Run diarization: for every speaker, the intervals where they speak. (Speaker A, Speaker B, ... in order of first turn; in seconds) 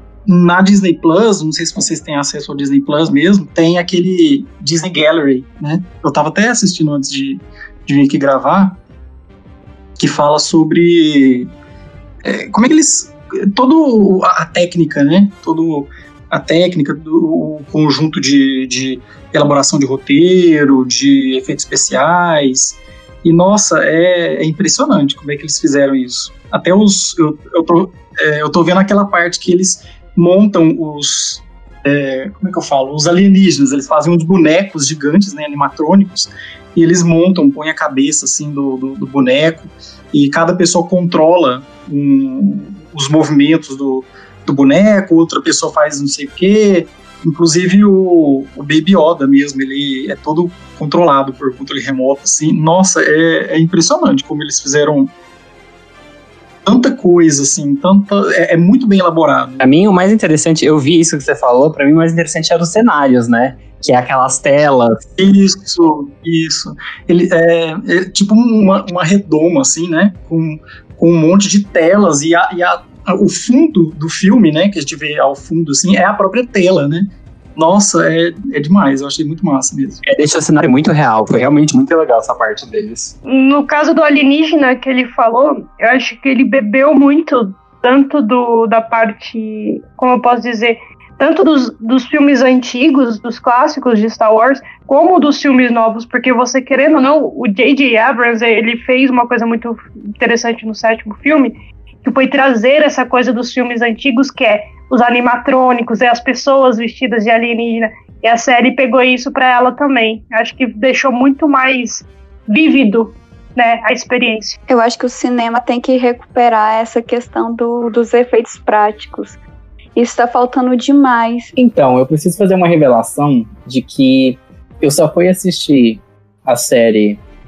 Speaker A: 0.2-8.8, 10.0-11.5, 12.2-55.1, 56.6-59.6, 65.2-80.0
Speaker B: 59.6-65.0, 80.0-83.1
Speaker C: 83.3-114.6
Speaker D: 114.7-119.4, 120.0-121.5
Speaker E: 121.5-127.2